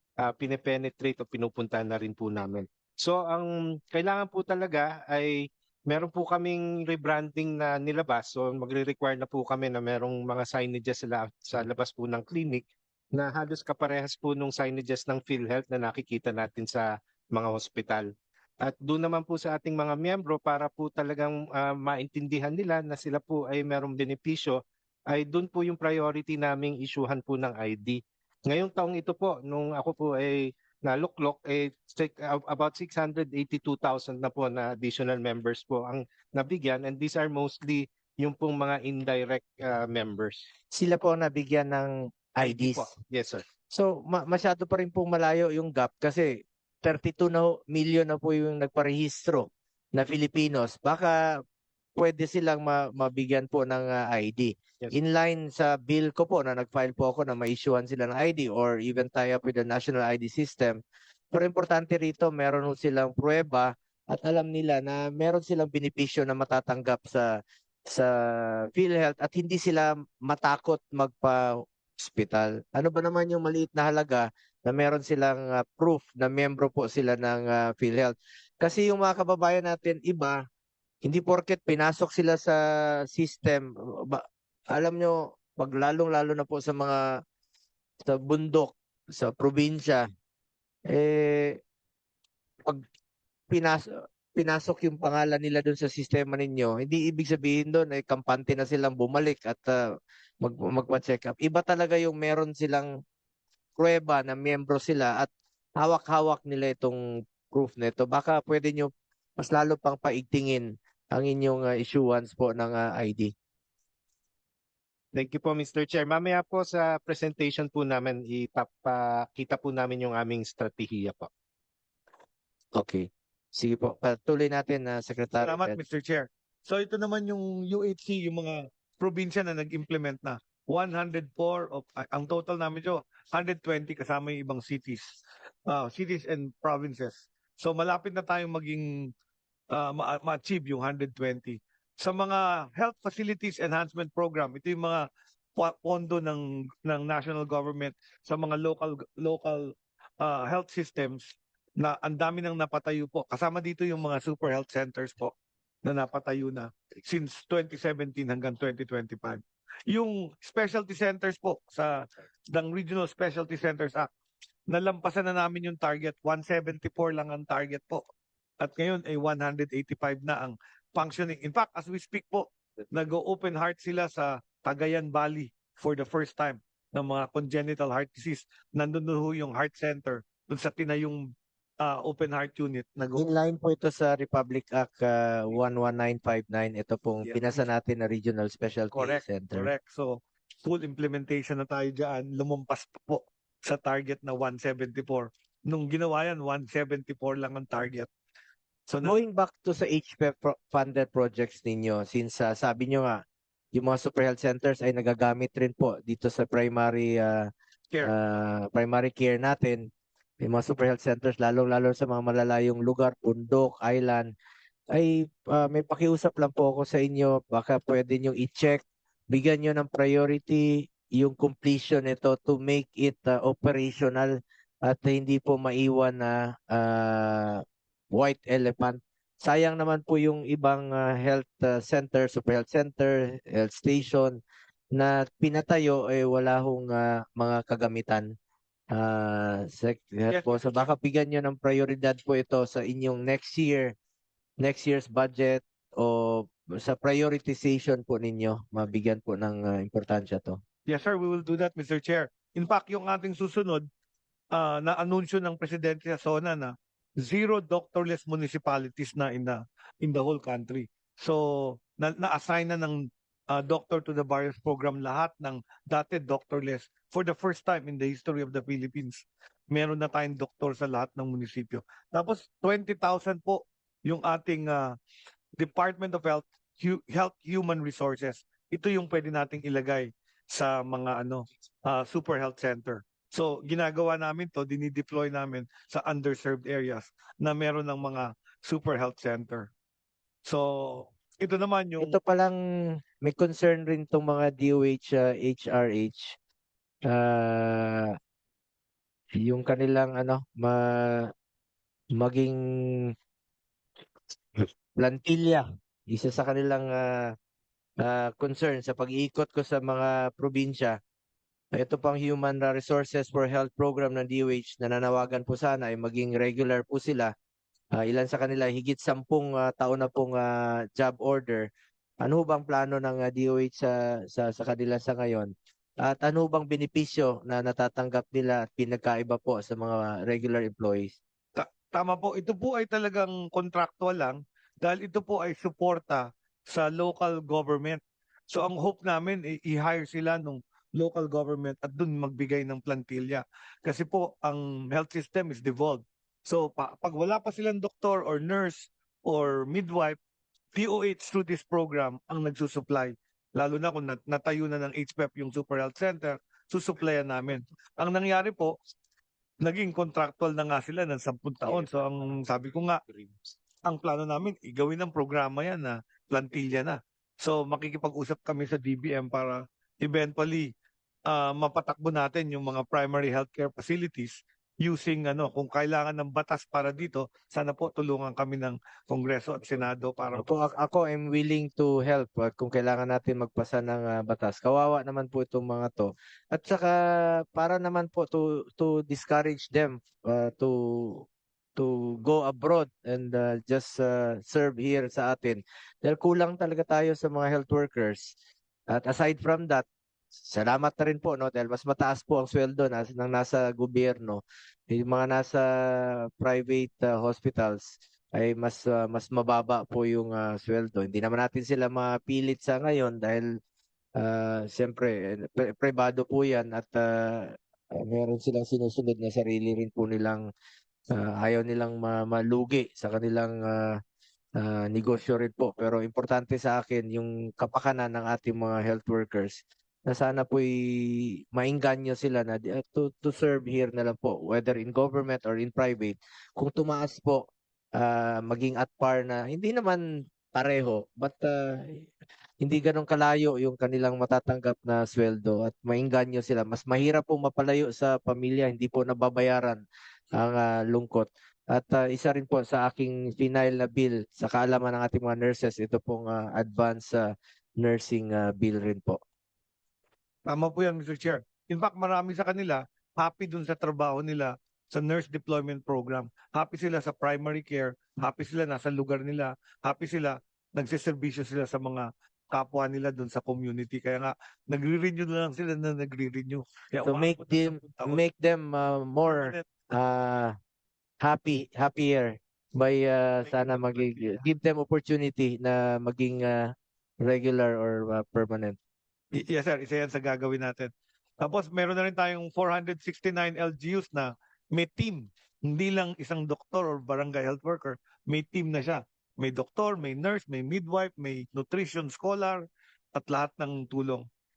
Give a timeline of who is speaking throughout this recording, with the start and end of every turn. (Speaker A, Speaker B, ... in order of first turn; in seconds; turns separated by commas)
Speaker A: 0.2-5.3, Speaker A: 5.9-18.1, Speaker A: 18.6-24.6, Speaker A: 25.1-40.5, Speaker B: 40.7-42.9, Speaker A: 42.4-43.4, Speaker B: 43.7-51.2, Speaker B: 52.0-60.8, Speaker B: 61.3-67.3, Speaker B: 67.9-80.4, Speaker B: 81.0-87.2, Speaker B: 88.0-90.0, Speaker B: 90.9-91.6, Speaker B: 93.5-99.8, Speaker B: 100.4-102.9, Speaker B: 103.8-113.3, Speaker A: 115.1-121.3, Speaker B: 122.7-125.8, Speaker C: 125.4-135.1, Speaker C: 135.7-138.9, Speaker C: 139.7-145.0, Speaker C: 145.6-155.3, Speaker C: 155.8-162.0, Speaker C: 162.5-164.1, Speaker C: 164.7-168.0, Speaker C: 168.6-181.3, Speaker C: 181.8-183.2, Speaker B: 183.1-189.7, Speaker C: 187.2-187.6, Speaker C: 188.9-198.1, Speaker C: 198.9-199.2, Speaker B: 199.0-203.2, Speaker B: 203.7-207.5, Speaker B: 208.0-209.9, Speaker B: 210.4-214.3, Speaker B: 214.9-234.4, Speaker B: 234.9-238.3, Speaker B: 238.9-243.9, Speaker C: 240.3-240.9, Speaker B: 244.6-250.6, Speaker C: 250.9-253.8, Speaker C: 254.5-274.9, Speaker C: 275.6-289.7, Speaker C: 290.4-292.1, Speaker B: 292.0-292.6, Speaker B: 293.2-296.4, Speaker B: 297.1-298.1, Speaker B: 299.4-301.3, Speaker B: 302.1-303.1, Speaker B: 304.6-307.3, Speaker B: 308.0-311.0, Speaker B: 311.7-317.3, Speaker B: 317.9-321.7, Speaker B: 322.2-325.5, Speaker B: 326.0-331.1, Speaker C: 331.6-350.2, Speaker C: 350.7-358.7, Speaker C: 359.6-363.0, Speaker A: 361.7-361.9, Speaker C: 363.8-370.7, Speaker C: 371.3-380.5, Speaker B: 380.3-398.3, Speaker B: 398.9-399.8, Speaker B: 400.5-413.5, Speaker B: 414.2-420.4, Speaker B: 421.1-423.9, Speaker B: 424.6-437.4, Speaker B: 437.9-442.0, Speaker B: 442.6-449.8, Speaker B: 450.3-457.3, Speaker B: 457.8-459.2, Speaker C: 460.4-478.2, Speaker B: 477.0-480.5, Speaker C: 479.3-479.6, Speaker B: 481.2-488.8, Speaker C: 483.4-484.4, Speaker C: 489.3-502.6, Speaker C: 503.1-504.2